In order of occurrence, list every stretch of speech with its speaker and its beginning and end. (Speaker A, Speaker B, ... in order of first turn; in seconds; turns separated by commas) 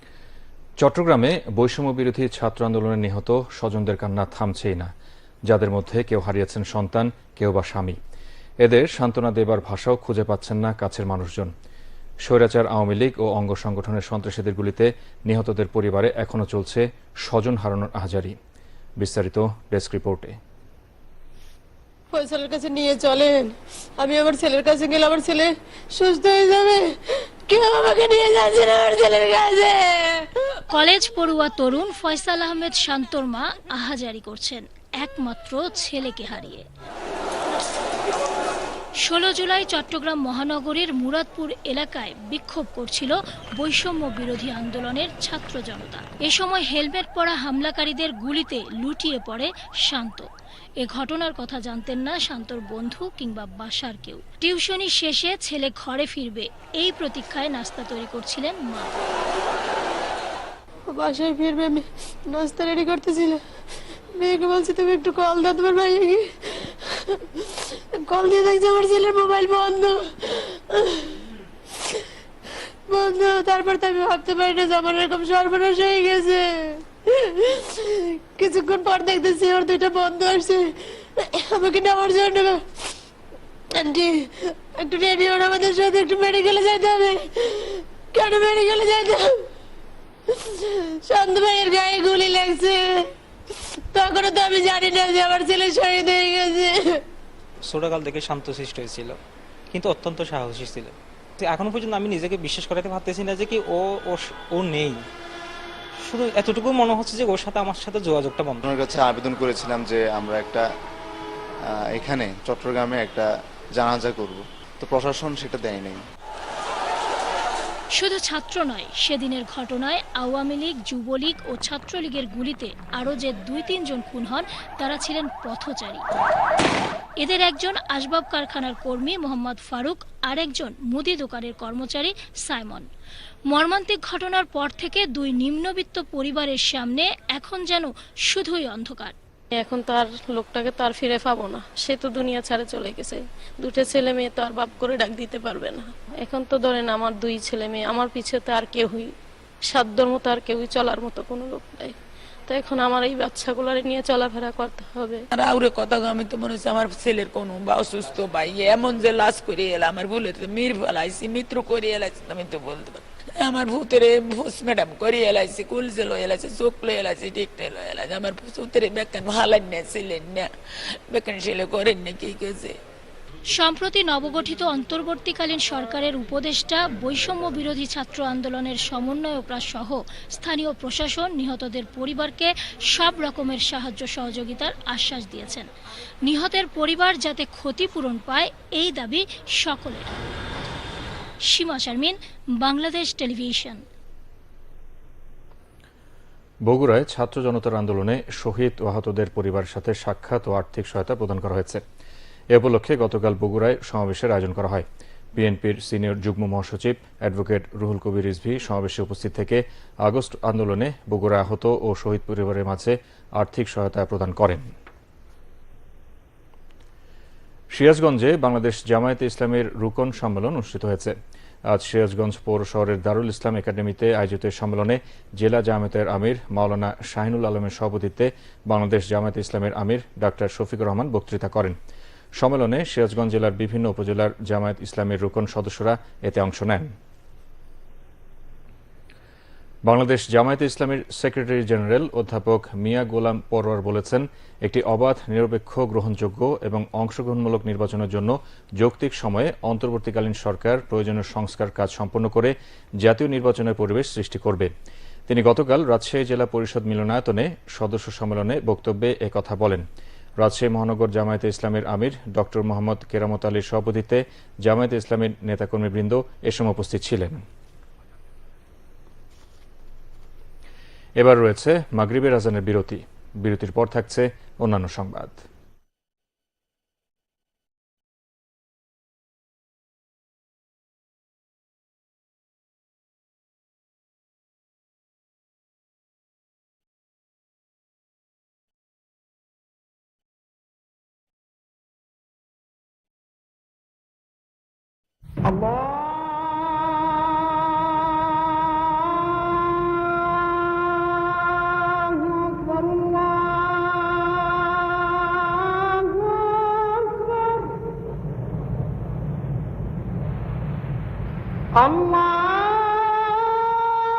Speaker A: 0.8-4.9, Speaker A: 5.5-8.0, Speaker A: 8.6-11.5, Speaker A: 12.2-18.4, Speaker A: 19.0-20.4, Speaker B: 22.1-26.9, Speaker B: 27.5-30.3, Speaker C: 30.7-36.6, Speaker C: 39.0-50.3, Speaker C: 50.8-59.0, Speaker B: 60.9-63.4, Speaker B: 64.2-66.7, Speaker B: 68.0-71.1, Speaker B: 72.9-82.6, Speaker B: 83.8-89.3, Speaker B: 90.6-93.0, Speaker B: 93.9-97.0, Speaker D: 97.7-99.2, Speaker D: 99.7-105.0, Speaker D: 106.0-108.6, Speaker E: 108.6-110.7, Speaker E: 111.9-116.0, Speaker C: 118.0-126.0, Speaker C: 127.2-132.9, Speaker C: 133.5-139.1, Speaker F: 139.5-149.1, Speaker F: 149.7-152.0, Speaker F: 152.5-155.2, Speaker G: 155.3-170.5, Speaker G: 171.1-172.8, Speaker C: 173.5-185.7, Speaker C: 186.2-190.1, Speaker C: 191.5-193.8, Speaker A: 196.7-201.8, Speaker A: 202.5-214.7, Speaker A: 217.7-221.1, Speaker A: 221.7-231.8, Speaker A: 232.4-236.9, Speaker A: 239.8-254.7, Speaker A: 255.3-259.8, Speaker A: 260.4-267.4, Speaker A: 271.2-275.4, Speaker H: 302.1-304.3, Speaker H: 305.1-307.6, Speaker H: 311.8-313.7